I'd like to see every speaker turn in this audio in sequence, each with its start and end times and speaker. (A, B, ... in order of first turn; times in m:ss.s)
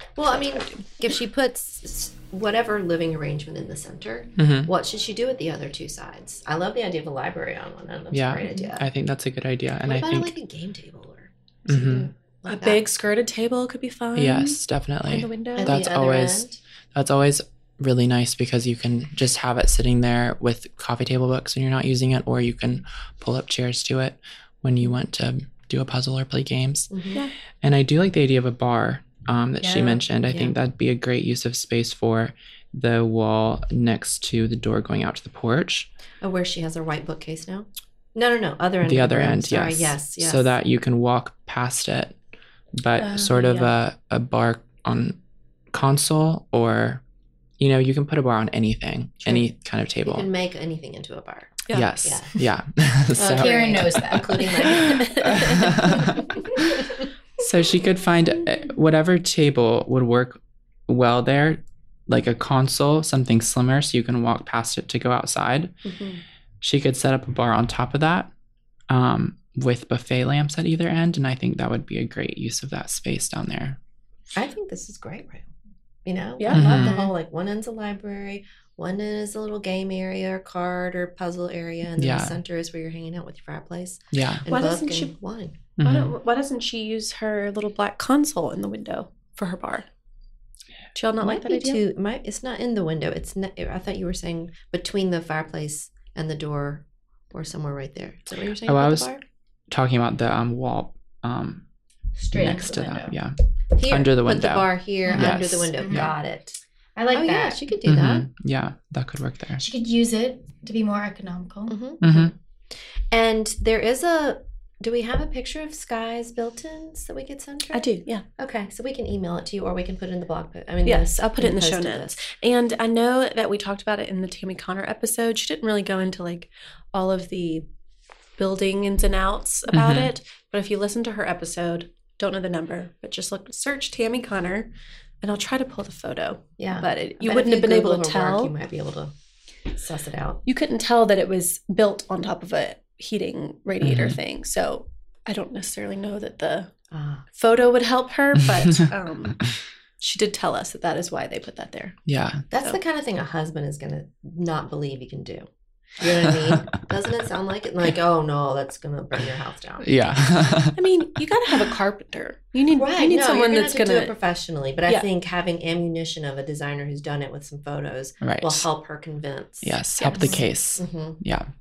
0:00.2-0:08.9 A
0:04.4-0:04.7 B
0:08.1-0:10.3 B
0:09.8-0:12.8 A
0:11.7-0:12.1 B
0:12.4-0:15.8 C
0:14.1-0:27.1 B
0:15.6-0:16.6 A
0:26.9-0:27.2 A
0:27.6-0:35.9 B
0:29.6-0:30.6 A
0:36.2-0:40.5 A
0:38.8-0:42.2 B
0:42.7-0:45.2 B
0:43.0-0:43.7 C
0:45.7-0:47.0 B
0:47.6-0:50.3 B
0:50.0-0:52.4 A
0:51.7-1:05.8 B
0:53.2-0:57.0 A
0:53.2-0:54.8 D
0:55.2-0:55.5 C
1:05.9-1:06.2 C
1:06.6-1:08.3 B
1:08.9-1:13.8 B
1:14.3-1:15.5 A
1:16.0-1:25.6 A
1:16.4-1:17.0 C
1:16.5-1:16.9 B
1:22.0-1:22.4 B
1:24.1-1:24.4 B
1:24.5-1:25.1 C
1:25.8-1:26.1 B
1:25.8-1:29.9 C
1:30.9-1:31.8 C
1:31.2-1:39.2 A
1:38.6-1:39.2 B
1:39.7-1:41.6 B
1:42.2-1:43.1 D
1:42.3-1:46.1 B
1:43.8-1:46.6 A
1:45.1-1:46.1 D
1:47.0-1:47.6 D
1:47.1-1:48.3 A
1:47.8-1:49.6 B
1:49.6-1:51.8 D
1:51.7-1:52.3 A
1:52.0-1:52.3 B
1:52.9-2:02.2 A
1:57.7-1:58.2 C
2:00.8-2:07.7 C
2:08.4-2:14.7 C
2:09.7-2:10.1 B
2:15.2-2:18.5 C
2:16.6-2:19.1 A
2:19.7-2:20.4 A
2:20.4-2:26.7 C
2:23.8-2:24.2 B
2:26.9-2:27.2 A
2:27.3-2:29.4 C
2:30.0-2:32.0 C
2:32.1-2:32.4 B
2:32.5-2:35.5 A
2:36.0-2:39.9 A
2:39.8-2:40.8 B
2:40.8-2:44.1 C
2:42.7-2:49.8 A
2:48.2-2:48.7 B
2:49.6-2:51.5 B
2:50.0-2:50.4 C
2:50.1-2:50.4 D
2:50.8-2:51.2 A